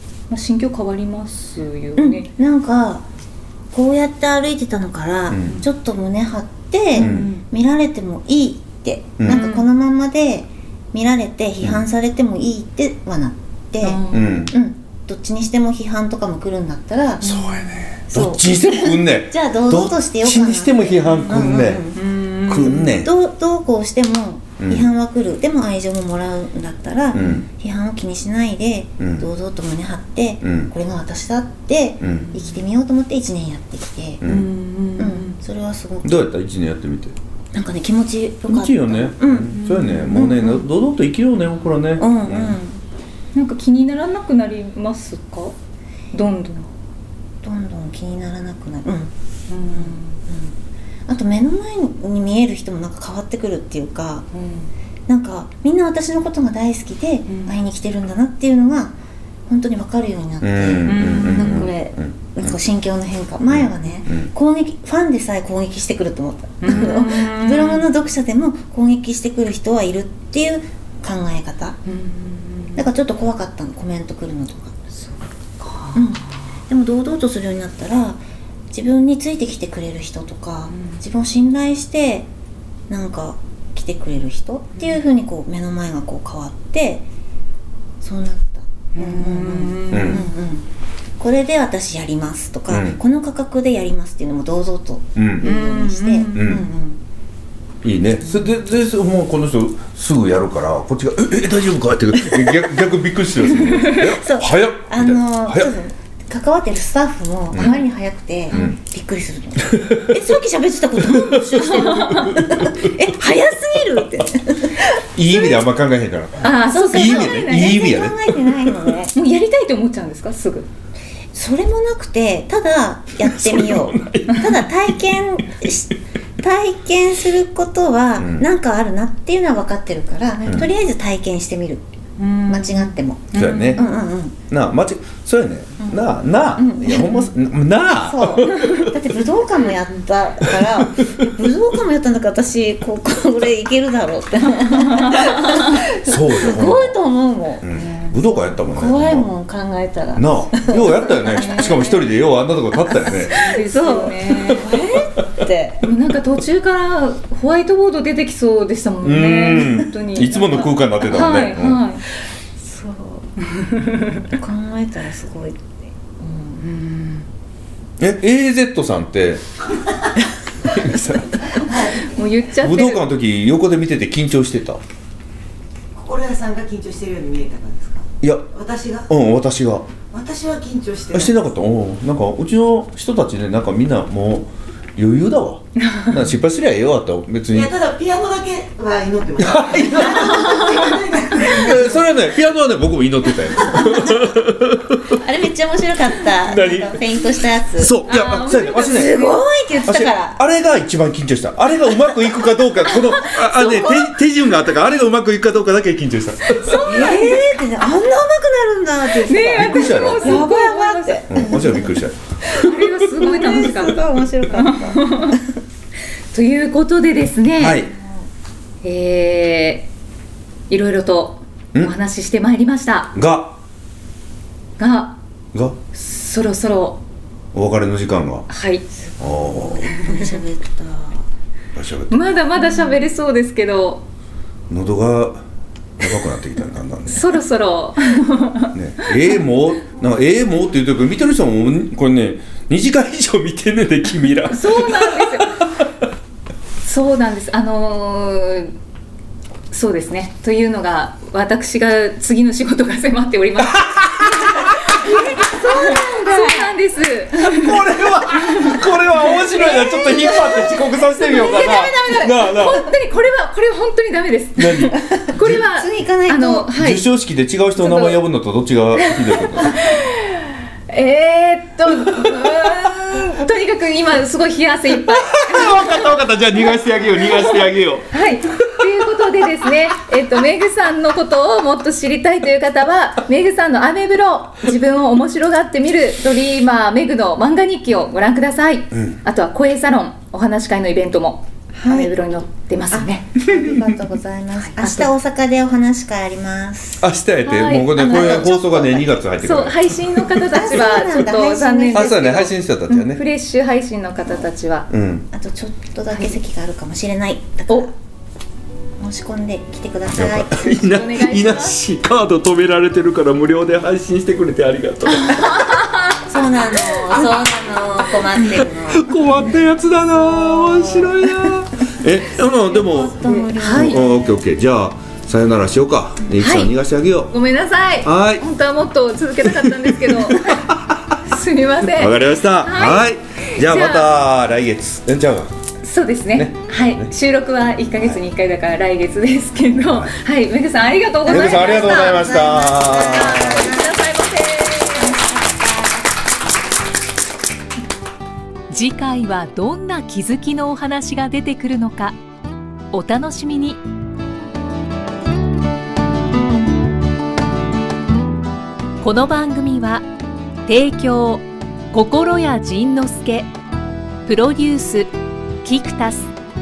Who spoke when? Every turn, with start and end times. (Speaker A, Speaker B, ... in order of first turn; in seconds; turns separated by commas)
Speaker A: 0.3-2.3, Speaker B: 2.0-3.0, Speaker B: 3.7-17.3, Speaker C: 5.3-5.6, Speaker A: 6.9-7.4, Speaker C: 6.9-7.3, Speaker C: 9.2-9.4, Speaker A: 9.3-9.7, Speaker A: 13.8-14.5, Speaker C: 14.1-14.5, Speaker A: 17.2-17.9, Speaker C: 17.2-21.8, Speaker B: 18.1-22.0, Speaker A: 21.6-23.1, Speaker C: 22.4-23.1, Speaker B: 22.9-34.2, Speaker C: 24.6-24.9, Speaker C: 27.1-27.4, Speaker C: 29.0-29.3, Speaker C: 30.4-30.7, Speaker C: 32.0-32.3, Speaker C: 34.2-34.5, Speaker A: 34.2-35.4, Speaker B: 35.0-36.2, Speaker C: 36.0-37.1, Speaker B: 37.5-40.5, Speaker C: 38.5-42.6, Speaker A: 39.5-40.6, Speaker B: 42.0-42.8, Speaker A: 43.3-45.5, Speaker A: 46.1-46.7, Speaker B: 47.4-49.1, Speaker A: 49.5-50.2, Speaker B: 49.7-50.5, Speaker B: 51.1-54.3, Speaker A: 54.3-54.7, Speaker B: 55.1-59.0, Speaker A: 57.3-57.5, Speaker B: 59.5-71.8, Speaker C: 60.4-62.5, Speaker A: 60.8-61.7, Speaker C: 63.5-64.3, Speaker A: 66.6-67.8, Speaker A: 71.8-72.8, Speaker B: 72.8-74.7, Speaker A: 74.9-76.5, Speaker B: 75.9-82.3, Speaker A: 80.7-81.0, Speaker B: 82.9-87.0, Speaker B: 88.0-90.7, Speaker A: 89.0-90.3, Speaker C: 89.9-90.3, Speaker B: 91.2-97.0, Speaker C: 92.7-93.0, Speaker C: 95.2-95.5, Speaker A: 95.4-96.7, Speaker C: 96.3-96.7, Speaker C: 97.8-105.7, Speaker A: 103.6-104.1, Speaker B: 104.0-115.6, Speaker C: 107.5-107.8, Speaker A: 107.6-107.8, Speaker C: 108.5-108.8, Speaker C: 111.0-112.9, Speaker A: 111.5-112.4, Speaker C: 115.1-118.7, Speaker A: 116.4-117.9, Speaker B: 116.5-119.1, Speaker A: 119.1-120.7, Speaker B: 121.3-131.8, Speaker C: 123.2-124.9, Speaker C: 128.2-128.5, Speaker A: 132.2-134.1, Speaker B: 132.5-134.3, Speaker C: 133.3-133.8, Speaker C: 134.5-139.2, Speaker B: 135.8-137.3, Speaker B: 138.0-152.0, Speaker A: 145.0-145.4, Speaker C: 146.0-147.0, Speaker C: 147.6-149.3, Speaker C: 150.2-153.6, Speaker A: 151.3-152.0, Speaker B: 152.8-155.8, Speaker A: 153.1-154.7, Speaker C: 154.5-155.2, Speaker A: 155.8-162.0, Speaker C: 159.0-161.8, Speaker B: 162.6-163.3, Speaker A: 163.5-164.2, Speaker B: 164.3-166.7, Speaker A: 166.6-167.2, Speaker C: 168.0-169.4, Speaker C: 170.6-171.4, Speaker D: 171.5-172.2, Speaker A: 172.0-173.0, Speaker C: 172.6-174.8, Speaker D: 175.9-179.1, Speaker C: 178.2-178.5, Speaker C: 179.1-179.9, Speaker D: 180.1-181.4, Speaker C: 181.1-187.7, Speaker A: 185.8-186.2, Speaker D: 187.5-192.0, Speaker C: 189.4-190.5, Speaker A: 190.4-190.8, Speaker C: 191.3-195.2, Speaker B: 195.1-197.9, Speaker C: 196.4-197.0, Speaker C: 197.8-199.2, Speaker A: 198.1-199.4, Speaker B: 198.7-200.4, Speaker C: 199.8-206.8, Speaker A: 203.2-203.9, Speaker B: 203.6-204.0, Speaker A: 206.4-207.5, Speaker B: 206.8-215.4, Speaker A: 209.2-211.8, Speaker C: 209.6-210.5, Speaker C: 211.3-212.9, Speaker A: 212.5-215.4, Speaker A: 216.3-217.8, Speaker C: 217.6-217.9, Speaker B: 217.9-218.3, Speaker A: 218.8-219.9, Speaker A: 220.7-223.1, Speaker C: 223.1-223.6, Speaker A: 224.8-225.2, Speaker A: 225.9-227.0, Speaker C: 227.5-228.5, Speaker A: 228.5-228.8, Speaker B: 229.0-231.2, Speaker C: 229.2-230.1, Speaker A: 229.9-230.4, Speaker C: 231.7-232.2, Speaker A: 232.1-234.0, Speaker B: 232.6-233.0, Speaker C: 234.7-235.4, Speaker C: 236.0-237.3, Speaker A: 237.1-239.4, Speaker C: 238.7-245.9, Speaker A: 244.4-245.6, Speaker A: 246.8-248.7, Speaker A: 249.7-267.0, Speaker C: 253.6-254.9, Speaker B: 255.0-256.7, Speaker C: 257.4-262.9, Speaker B: 259.7-260.2, Speaker B: 261.4-261.8, Speaker C: 264.6-265.6, Speaker B: 265.0-266.7, Speaker C: 266.8-269.8, Speaker A: 267.8-268.2, Speaker A: 268.9-293.4, Speaker C: 275.1-278.1, Speaker C: 278.6-278.9, Speaker B: 291.7-292.1, Speaker B: 292.9-297.0, Speaker A: 294.6-295.1, Speaker C: 297.0-300.2, Speaker A: 297.4-298.5, Speaker B: 297.9-299.1, Speaker A: 299.4-304.9, Speaker B: 300.3-302.5, Speaker C: 301.9-303.2, Speaker C: 304.9-305.3, Speaker B: 305.3-307.9, Speaker B: 309.0-310.7, Speaker C: 310.1-315.8, Speaker A: 310.6-311.8, Speaker A: 315.2-316.0, Speaker B: 316.2-319.1, Speaker C: 318.5-327.3, Speaker B: 320.4-321.2, Speaker B: 322.3-324.3, Speaker A: 323.2-324.0, Speaker A: 326.4-326.7, Speaker A: 327.3-330.7, Speaker C: 328.0-328.4, Speaker C: 329.4-331.2, Speaker A: 331.2-334.1, Speaker C: 331.8-335.5, Speaker A: 335.8-345.2, Speaker C: 336.3-337.1, Speaker C: 341.2-343.7, Speaker B: 341.3-344.0, Speaker B: 344.9-346.0, Speaker E: 348.7-352.2, Speaker E: 352.9-353.8, Speaker E: 359.0-360.0, Speaker E: 360.6-363.5, Speaker E: 364.2-365.1, Speaker E: 365.6-366.3